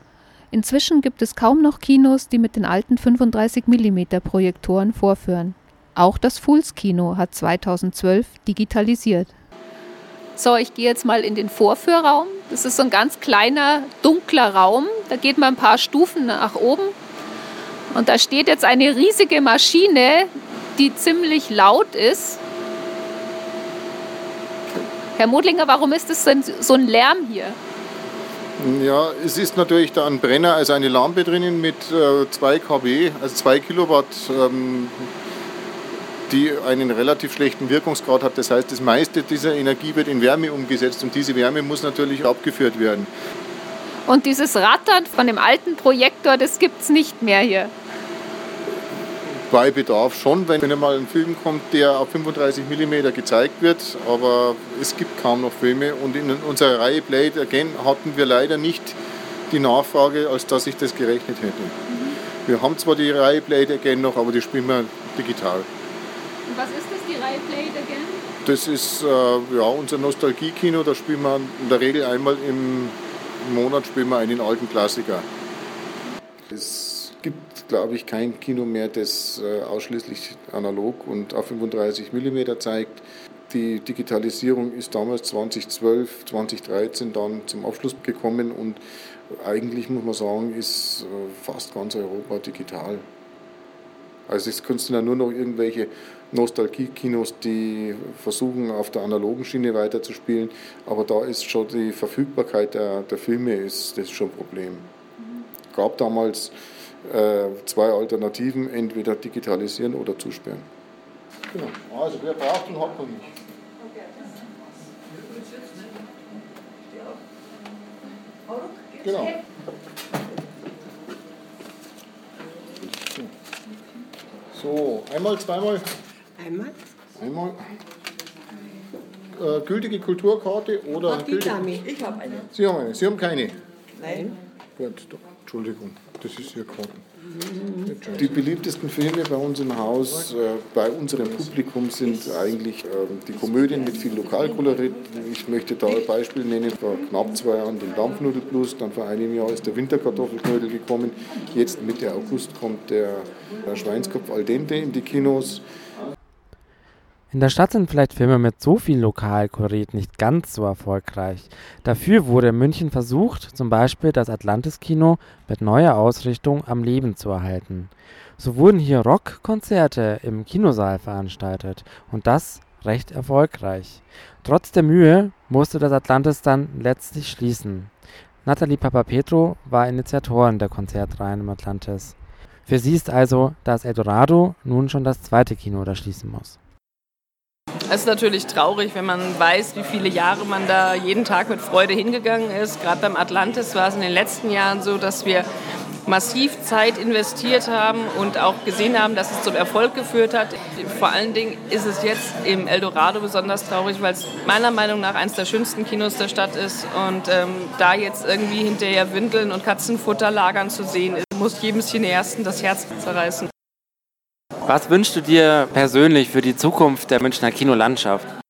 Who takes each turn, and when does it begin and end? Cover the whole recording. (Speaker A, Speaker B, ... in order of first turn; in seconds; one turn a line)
Speaker A: 0.5-9.3
Speaker A: 10.4-16.9
Speaker A: 17.9-22.4
Speaker A: 25.1-27.6
Speaker B: 28.6-35.1
Speaker B: 36.3-43.1
Speaker A: 44.1-47.7
Speaker B: 49.5-59.0
Speaker B: 59.5-61.8
Speaker A: 61.9-62.2
Speaker B: 62.5-65.7
Speaker A: 66.5-68.2
Speaker B: 68.4-75.3
Speaker B: 76.5-93.1
Speaker B: 94.3-104.9
Speaker B: 105.7-110.7
Speaker B: 111.5-113.3
Speaker B: 119.0-119.4
Speaker B: 124.5-125.9
Speaker C: 126.4-126.8
Speaker B: 127.2-127.7
Speaker B: 129.3-131.9
Speaker C: 131.1-132.4
Speaker B: 132.5-133.6
Speaker C: 134.0-134.3
Speaker B: 134.8-137.0
Speaker B: 137.9-155.6
Speaker D: 157.3-177.9
Speaker D: 178.4-182.1
Speaker D: 182.7-186.6
Speaker E: 187.9-195.5
Speaker E: 196.1-213.5
Speaker D: 214.7-218.3